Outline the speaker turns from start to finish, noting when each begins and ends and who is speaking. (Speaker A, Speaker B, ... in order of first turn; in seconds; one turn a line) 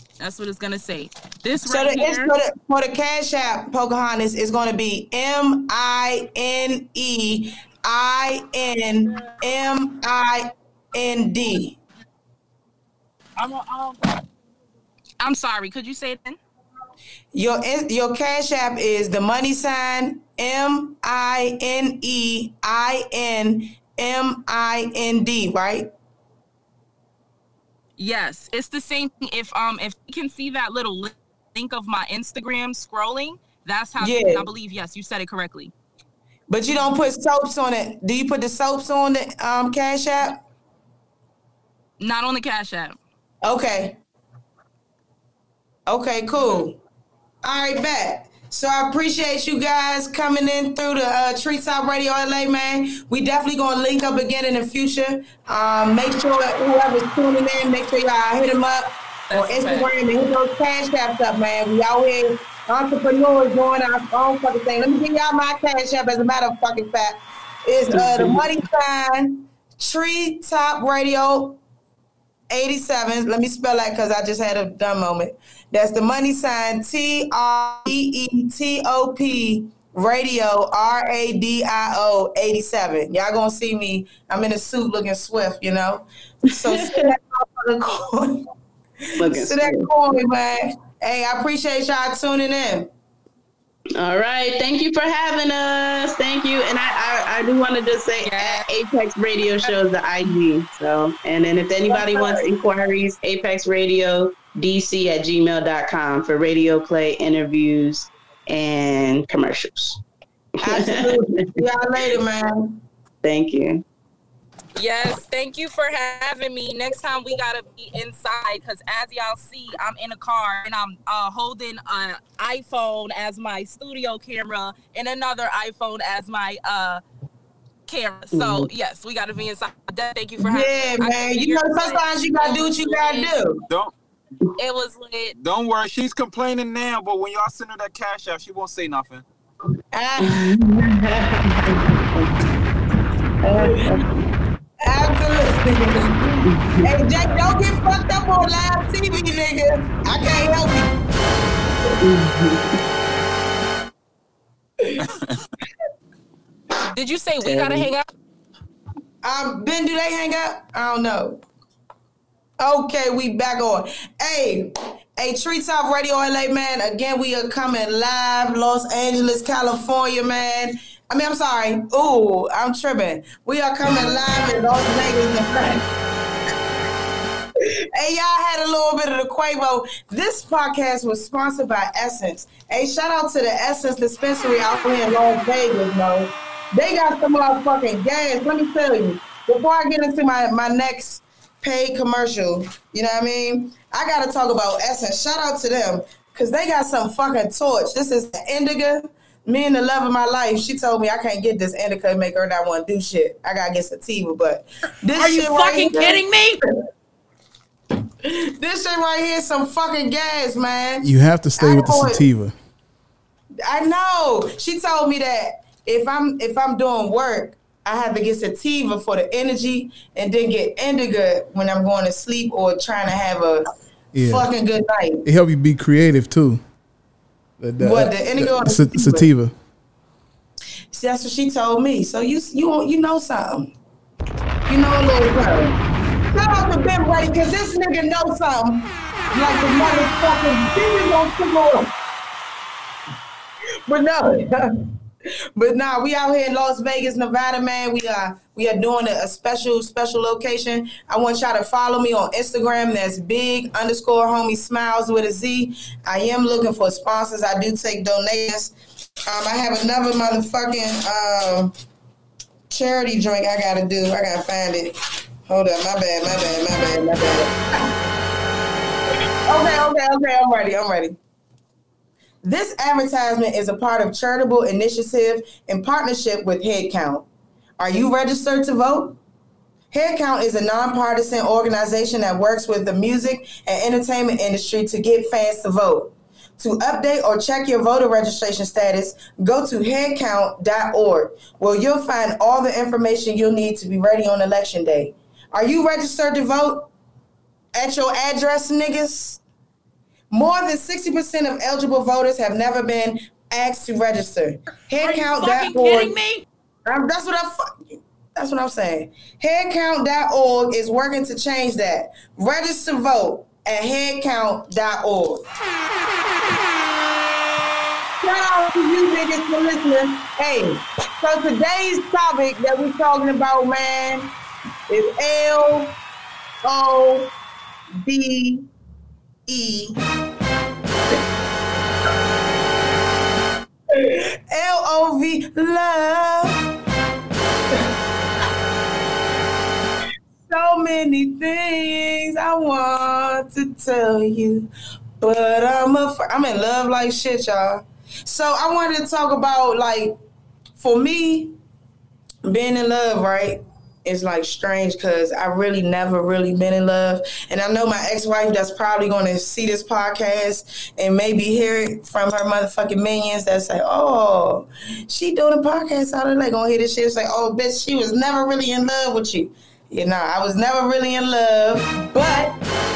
Speaker A: 0.2-2.4
Speaker B: 1.6-11.8
Speaker C: 13.4-14.0
Speaker A: 15.2-16.4
Speaker B: 17.3-25.9
Speaker A: 28.0-35.7
Speaker B: 34.0-34.5
Speaker B: 36.5-40.4
Speaker A: 42.0-43.0
Speaker B: 43.4-44.0
Speaker B: 45.9-46.8
Speaker B: 47.4-71.6
Speaker A: 59.3-59.9
Speaker D: 67.9-68.5
Speaker B: 72.5-88.4
Speaker D: 86.5-87.1
Speaker D: 89.2-89.9
Speaker B: 89.2-92.9
Speaker D: 94.0-110.0
Speaker A: 98.2-98.6
Speaker B: 101.9-102.4
Speaker D: 110.6-111.5
Speaker B: 110.6-112.8
Speaker D: 113.2-113.8
Speaker A: 114.8-127.0
Speaker A: 127.9-133.3
Speaker D: 128.3-128.7
Speaker B: 130.4-133.6
Speaker A: 134.6-135.3
Speaker C: 135.4-139.2
Speaker B: 139.9-140.5
Speaker D: 140.2-142.3
Speaker B: 143.4-144.0
Speaker D: 143.5-144.0
Speaker B: 144.8-150.9
Speaker D: 146.4-146.9
Speaker D: 152.0-152.7
Speaker A: 156.9-158.1
Speaker D: 157.4-157.9
Speaker B: 159.2-161.4
Speaker B: 162.6-175.9
Speaker B: 177.9-206.2
Speaker E: 205.1-206.6
Speaker B: 208.2-212.3
Speaker F: 211.0-212.5
Speaker B: 213.7-223.7
Speaker F: 224.1-224.5
Speaker B: 224.2-225.3
Speaker F: 225.2-226.6
Speaker F: 227.6-229.5
Speaker B: 227.8-229.3
Speaker B: 230.9-233.7
Speaker B: 234.7-235.8
Speaker B: 236.3-241.9
Speaker B: 243.9-244.8
Speaker B: 245.6-258.7
Speaker B: 259.3-261.7
Speaker B: 262.7-267.5
Speaker B: 269.5-271.2
Speaker B: 272.4-277.3
Speaker B: 277.8-279.2
Speaker B: 279.9-296.9
Speaker B: 297.8-299.4
Speaker B: 300.3-306.2
Speaker E: 304.9-306.4
Speaker B: 306.9-315.5
Speaker B: 318.2-324.3
Speaker B: 324.9-326.0
Speaker B: 326.6-327.3
Speaker B: 327.9-328.7
Speaker B: 329.5-330.0
Speaker B: 333.9-336.7
Speaker B: 340.5-350.2
Speaker B: 350.8-351.5
Speaker B: 352.4-372.6